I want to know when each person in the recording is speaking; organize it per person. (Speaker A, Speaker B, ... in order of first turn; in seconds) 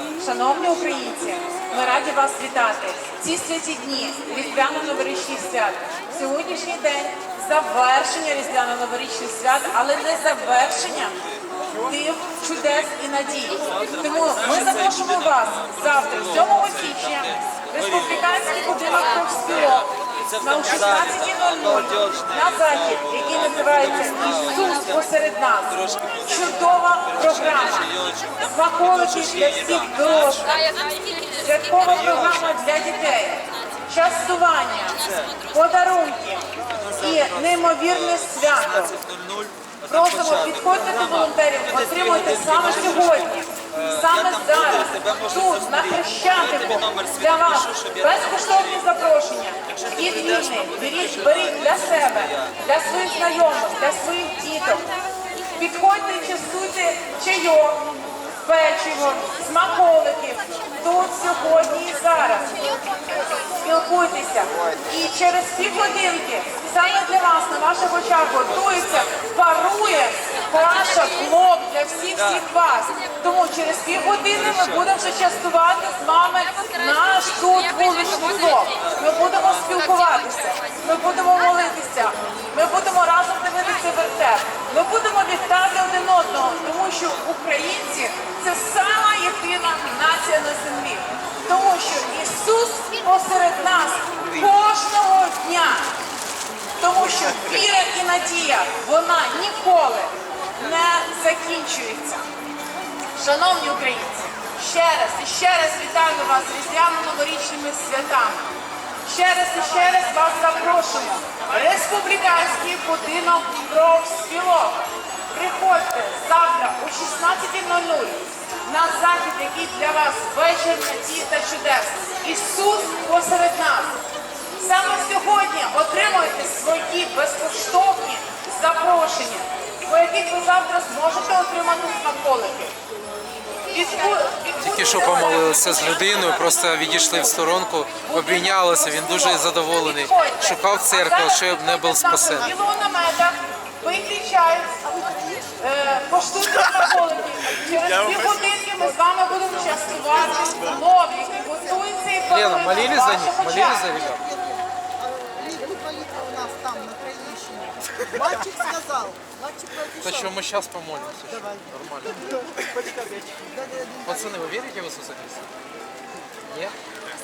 Speaker A: 0.2-11.2, 11.9-30.6, 31.4-39.0, 39.9-54.9, 55.6-57.9, 58.4-62.7, 63.6-95.9, 96.8-102.2, 103.2-108.5, 109.1-124.0, 124.6-132.8, 133.7-136.3, 138.1-144.8, 145.6-153.9
Speaker B: 134.6-142.5, 152.3-154.2, 160.0-162.2, 164.0-165.5, 166.5-166.8
Speaker C: 145.0-145.4, 153.9-164.6